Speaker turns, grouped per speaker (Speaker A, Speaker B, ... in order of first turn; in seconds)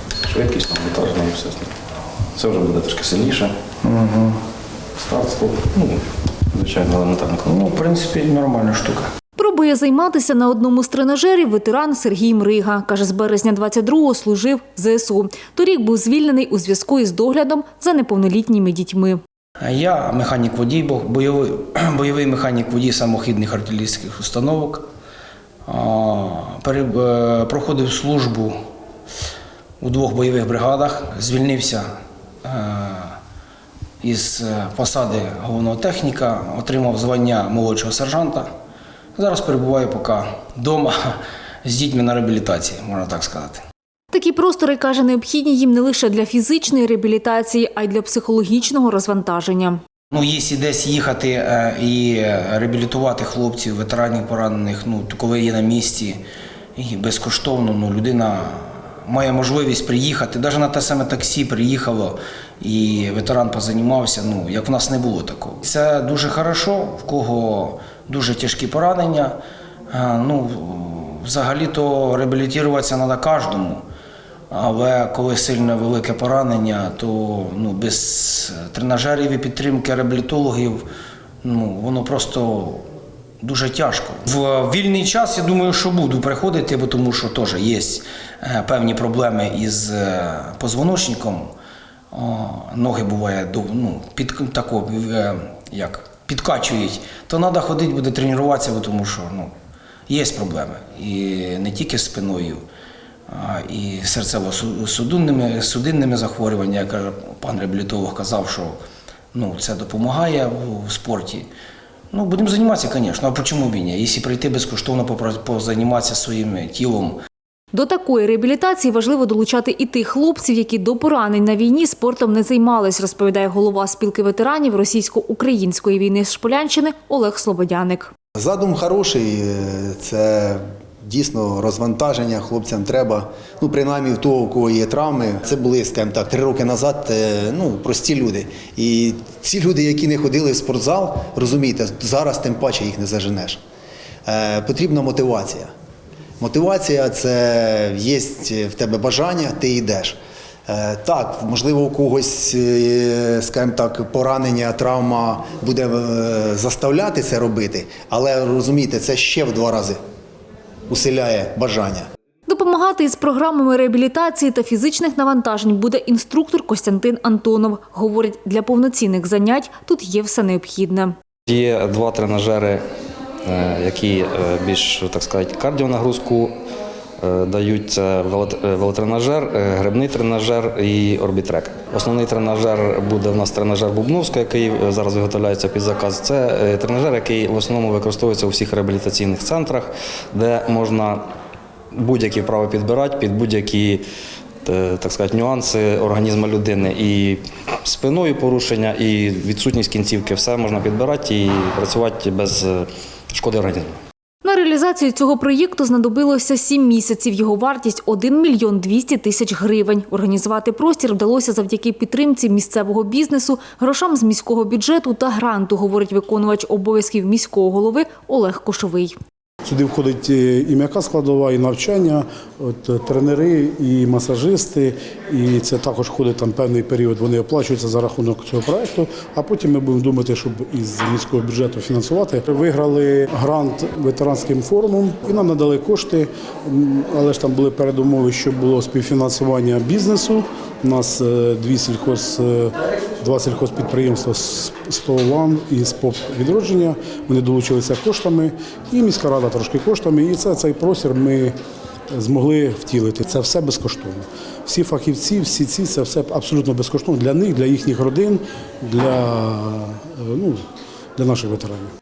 Speaker A: 0.2-1.7, 2.3-3.5, 5.0-6.0, 6.5-7.4, 171.5-172.8, 173.4-176.5, 177.2-191.2, 191.9-194.0, 194.6-203.9
Speaker B: 3.8-4.4, 7.4-9.1, 19.6-24.9, 25.6-28.5, 29.8-31.9, 32.5-33.2, 34.0-38.5, 39.2-43.6, 50.1-56.2, 56.8-69.4, 69.9-73.8, 74.5-80.8, 81.4-82.8, 83.4-91.5, 92.1-99.5, 100.1-102.6, 103.3-108.8, 109.3-111.5, 112.1-117.2
Speaker C: 9.4-19.2, 44.1-49.8, 117.7-128.1, 162.5-171.1, 204.4-219.1
Speaker D: 128.4-143.6, 144.2-145.7, 146.4-160.0, 160.9-162.1
Speaker E: 219.6-251.5, 252.1-260.6, 261.1-261.9